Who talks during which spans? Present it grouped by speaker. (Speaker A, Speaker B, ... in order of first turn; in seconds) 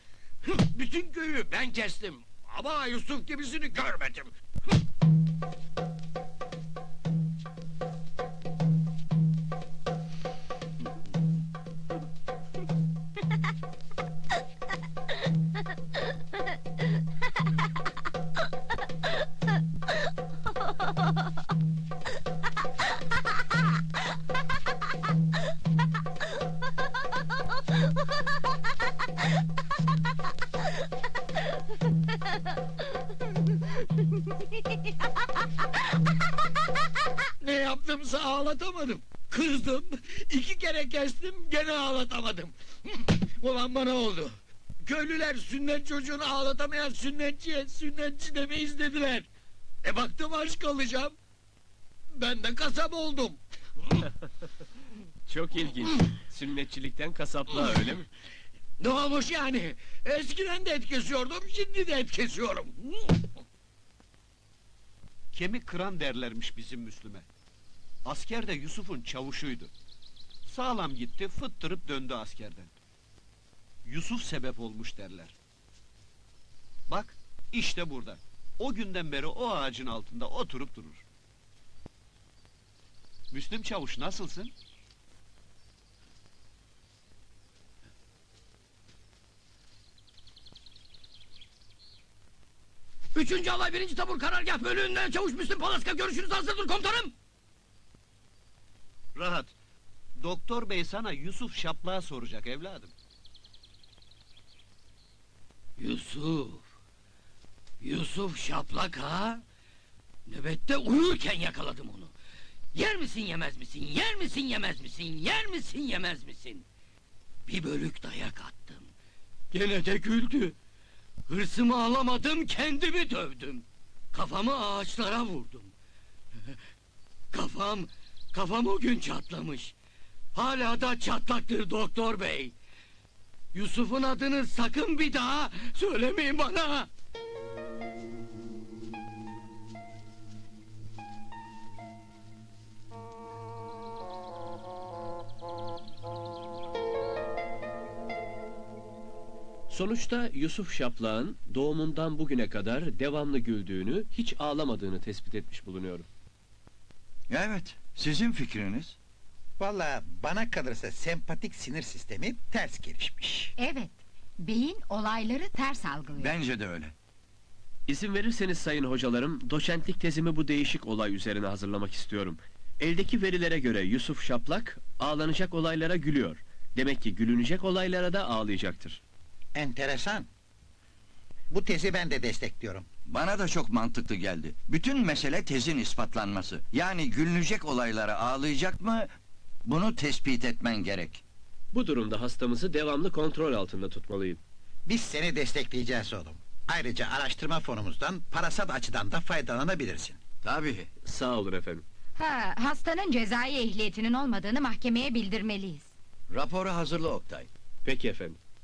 Speaker A: 0.4-4.3, 37.4-49.3, 49.8-51.1, 52.1-53.4, 58.8-63.1, 93.1-97.1, 105.8-106.6, 107.8-109.4, 110.3-112.1, 112.7-116.6, 117.5-118.9, 119.5-120.5, 121.3-125.7, 127.3-129.7, 130.3-132.5, 133.5-136.9
Speaker B: 55.3-58.0, 149.7-156.1, 167.9-179.0, 191.7-194.4, 201.0-201.8, 207.8-208.4
Speaker C: 65.3-67.3, 68.0-69.7, 70.4-72.7, 73.8-75.3, 76.9-81.0, 83.3-84.5, 99.1-99.5, 100.2-102.9
Speaker D: 157.3-158.9, 166.3-166.9, 183.2-189.1, 189.8-191.1, 206.4-207.3
Speaker E: 159.6-163.5, 179.5-180.3, 181.5-182.9, 194.8-200.2
Speaker F: 163.6-166.4, 202.2-205.9